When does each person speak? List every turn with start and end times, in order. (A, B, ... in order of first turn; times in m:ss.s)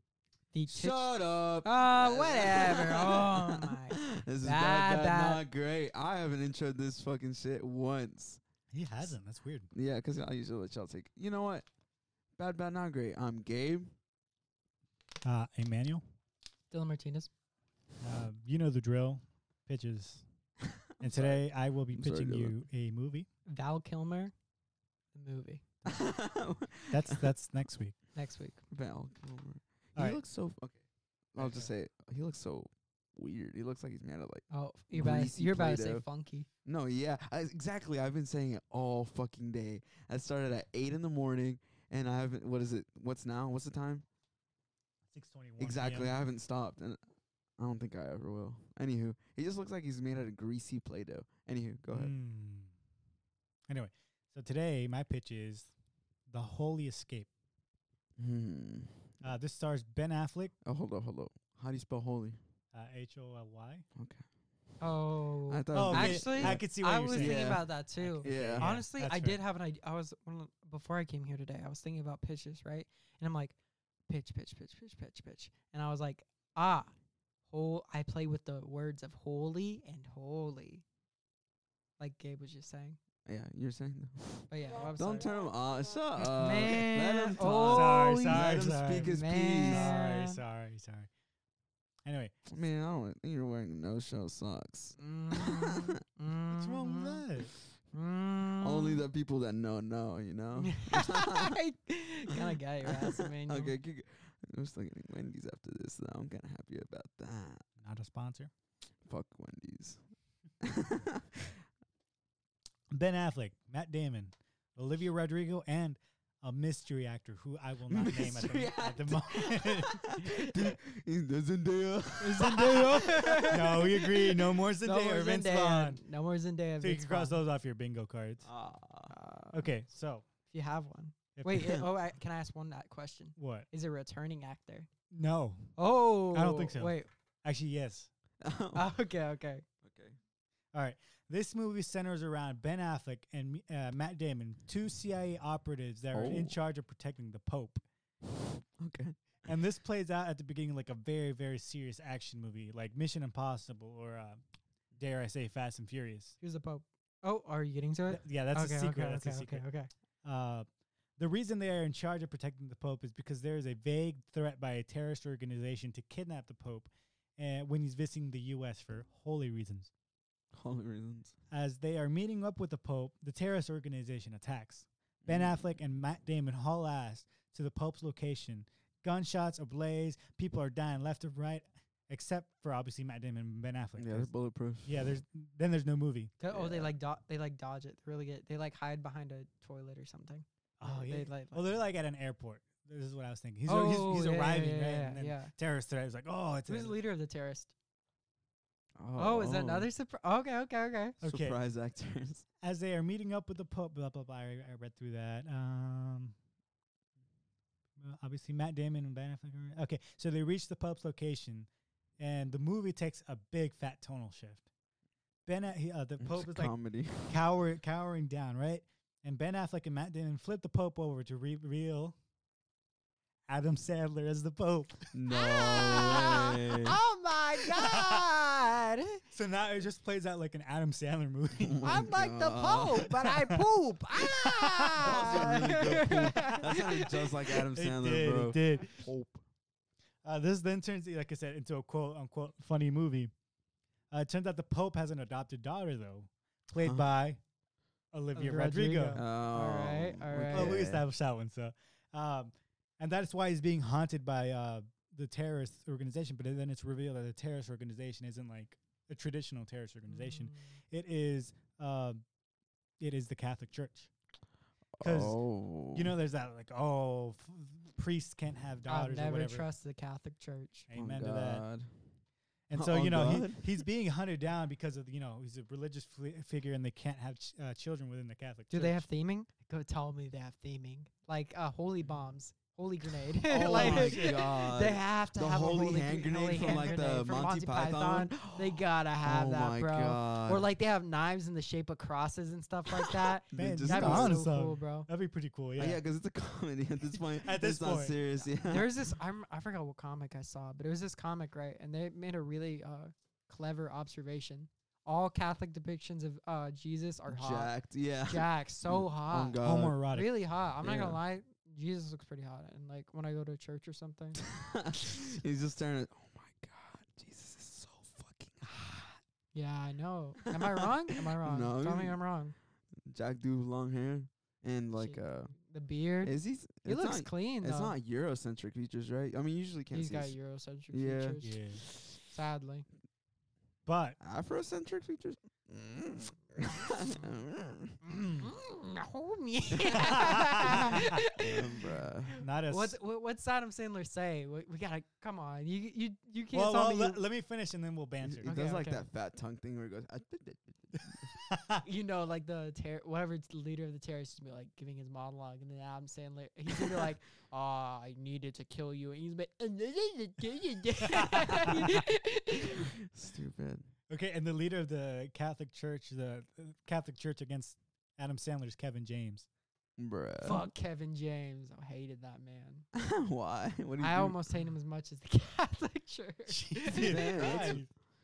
0:00.5-0:05.4 A
0:00.7-0:08.4 B
0:08.7-0:09.7 C
0:09.7-0:11.7 B
0:12.4-0:13.9 B
0:15.2-0:16.0 C
0:16.7-0:17.3 A
0:18.0-0:20.2 C
0:21.0-0:22.6 B
0:21.0-0:23.3 C
0:23.5-0:24.3 A
0:25.1-0:25.7 A
0:25.9-0:27.3 B
0:26.9-0:28.0 C
0:28.1-0:28.6 A
0:28.7-0:30.8 B
0:30.0-0:30.2 C
0:31.3-0:36.0 B
0:31.4-0:31.7 C
0:34.5-0:36.5 A
0:36.6-0:44.0 B
0:45.1-0:46.2 C
0:45.6-0:47.0 B
0:47.6-0:52.1 B
0:51.9-0:52.7 C
0:53.7-0:55.7 C
0:56.3-0:57.3 C
0:58.2-0:59.1 B
0:59.2-1:00.5 C
1:00.6-1:02.4 B
1:02.7-1:03.8 C
1:04.0-1:04.2 B
1:04.8-1:13.6 A
1:05.5-1:08.8 B
1:05.7-1:09.4 C
1:14.1-1:16.9 A
1:17.5-1:20.8 A
1:22.0-1:23.0 A
1:23.2-1:30.0 B
1:24.5-1:25.3 A
1:26.2-1:30.4 A
1:26.2-1:29.1 C
1:29.7-1:31.1 C
1:32.0-1:32.4 C
1:32.5-1:35.9 B
1:35.0-1:37.2 A
1:36.5-1:37.5 C
1:37.9-1:39.0 A
1:38.6-1:41.6 B
1:40.6-1:43.8 A
1:42.3-1:47.6 B
1:47.8-1:48.5 C
1:49.1-1:50.0 B
1:50.6-1:51.2 B
1:52.9-2:00.2 C
1:57.9-2:04.0 B
2:02.2-2:07.4 A
2:03.5-2:06.0 C
2:06.8-2:08.4 C
2:08.4-2:09.1 B
2:09.1-2:09.7 A
2:09.5-2:10.2 C
2:10.5-2:14.9 A
2:11.4-2:11.8 C
2:13.4-2:13.7 C
2:15.1-2:15.8 C
2:15.8-2:17.1 A
2:16.3-2:18.1 C
2:18.4-2:19.0 B
2:18.7-2:19.6 A
2:19.8-2:20.2 B
2:20.7-2:27.8 C
2:26.1-2:26.6 B
2:28.8-2:29.5 B
2:29.4-2:34.4 C
2:35.0-2:36.4 C
2:36.4-2:39.9 A
2:38.1-2:39.6 C
2:40.2-2:40.7 C
2:41.2-2:49.9 C
2:50.5-2:51.3 B
2:51.5-3:04.3 C
2:55.2-2:55.7 B
3:04.0-3:05.1 B
3:04.8-3:06.3 C
3:06.4-3:11.8 A
3:06.5-3:06.9 B
3:10.8-3:17.0 C
3:13.6-3:15.5 A
3:16.7-3:17.7 A
3:19.0-3:19.9 B
3:19.2-3:21.2 A
3:21.2-3:21.6 C
3:21.2-3:22.4 B
3:22.6-3:26.3 C
3:28.0-3:34.7 C
3:35.4-3:36.8 C
3:36.2-3:37.4 B
3:37.3-3:42.2 C
3:43.5-3:45.0 C
3:45.1-3:47.0 B
3:45.3-3:49.2 A
3:47.8-3:48.2 C
3:49.3-3:51.9 C
3:51.6-3:53.1 B
3:51.8-3:57.4 A
3:53.2-3:53.7 C
3:54.2-3:59.0 C
3:55.0-3:59.4 B
4:00.2-4:03.3 C
4:04.1-4:07.4 C
4:06.8-4:07.1 B
4:08.1-4:09.2 C
4:08.3-4:10.8 A
4:09.1-4:11.0 B
4:10.5-4:22.2 C
4:20.1-4:20.8 A
4:23.0-4:24.1 C
4:25.0-4:26.1 B
4:25.0-4:25.4 C
4:25.9-4:29.7 C
4:28.9-4:30.9 A
4:30.9-4:31.6 C
4:30.9-4:31.9 B
4:32.7-4:39.1 C
4:32.7-4:33.8 B
4:38.7-4:55.1 A
4:43.5-4:50.6 B
4:43.5-4:44.4 C
4:52.9-4:54.4 B
4:53.5-4:56.0 C
4:55.8-4:58.9 B
4:57.1-4:58.2 C
4:58.5-5:07.7 A
5:07.3-5:10.0 B
5:08.3-5:14.4 A
5:09.6-5:10.3 C
5:10.8-5:11.2 B
5:14.6-5:18.9 B
5:19.5-5:22.5 A
5:20.4-5:20.9 B
5:21.4-5:22.2 B
5:23.1-5:25.5 B
5:24.9-5:26.3 A
5:26.2-5:30.4 B
5:26.8-5:28.0 A
5:29.9-5:31.6 A
5:30.9-5:31.4 B
5:31.4-5:31.8 C
5:32.2-5:32.8 A
5:33.9-5:34.2 C
5:34.2-5:38.0 B
5:38.1-5:38.4 C
5:38.4-5:41.6 A
5:39.7-5:42.3 B
5:40.1-5:40.8 C
5:42.4-5:43.0 C
5:42.4-5:47.2 A
5:46.5-5:48.6 C
5:48.2-5:51.3 B
5:48.4-5:49.1 A
5:51.5-5:51.8 C
5:51.8-6:02.9 A
6:01.2-6:01.8 C
6:02.7-6:03.9 B
6:04.1-6:09.5 C
6:10.0-6:10.6 B
6:10.4-6:12.8 A
6:12.9-6:14.4 B
6:14.0-6:17.8 A
6:16.5-6:17.9 C
6:16.9-6:17.9 B